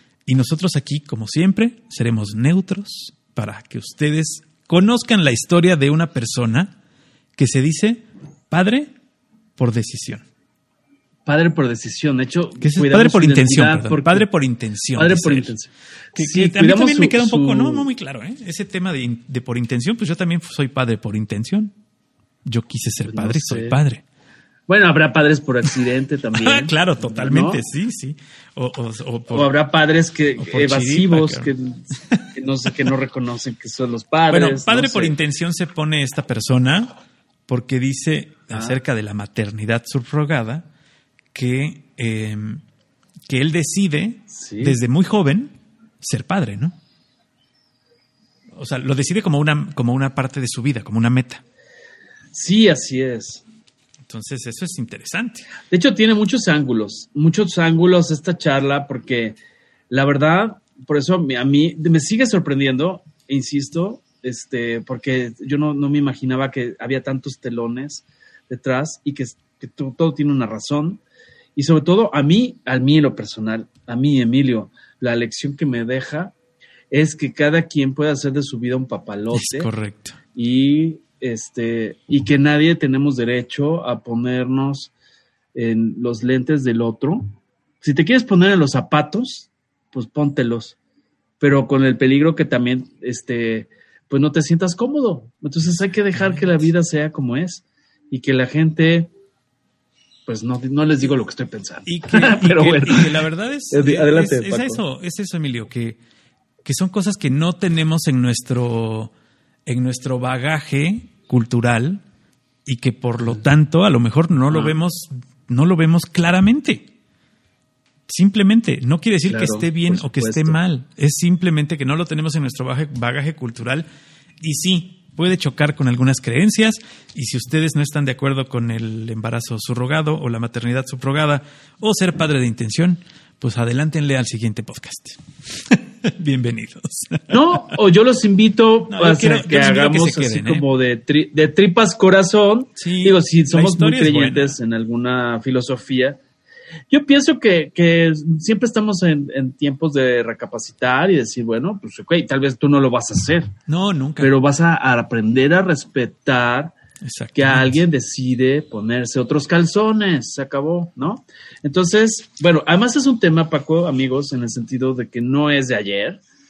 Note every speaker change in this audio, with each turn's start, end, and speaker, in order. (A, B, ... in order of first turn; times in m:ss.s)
0:00.2-0:06.7 A
0:07.4-0:08.9 A
0:09.6-0:10.2 A
0:11.2-0:14.3 B
0:12.6-0:15.5 A
0:15.0-0:17.9 B
0:16.2-0:21.7 A
0:22.4-0:24.0 A
0:23.1-0:23.8 B
0:24.7-0:27.6 B
0:26.3-0:29.5 A
0:29.3-0:35.1 B
0:30.4-0:32.9 A
0:34.3-0:36.9 A
0:37.5-0:40.7 A
0:38.5-0:38.8 B
0:41.3-0:42.6 A
0:43.3-0:46.8 A
0:44.3-0:44.8 B
0:48.6-0:51.4 A
0:52.3-0:53.4 B
0:54.1-0:55.5 A
0:55.7-0:59.4 B
0:59.9-1:11.0 B
1:11.6-1:16.3 B
1:16.9-1:19.7 B
1:19.3-1:20.2 A
1:20.3-1:24.9 B
1:25.5-1:30.8 B
1:31.4-1:39.1 B
1:36.1-1:36.7 A
1:40.2-1:44.8 B
1:41.8-1:46.0 A
1:46.6-1:49.1 A
1:49.6-1:52.0 A
1:52.6-1:56.9 A
1:54.5-1:54.7 B
1:58.1-2:03.9 A
1:59.3-2:00.6 B
2:04.4-2:17.8 A
2:17.3-2:26.2 B
2:18.9-2:20.7 A
2:22.8-2:24.6 A
2:26.9-2:33.5 B
2:33.7-2:34.3 A
2:34.2-2:36.7 B
2:37.0-2:37.8 A
2:37.3-2:46.2 B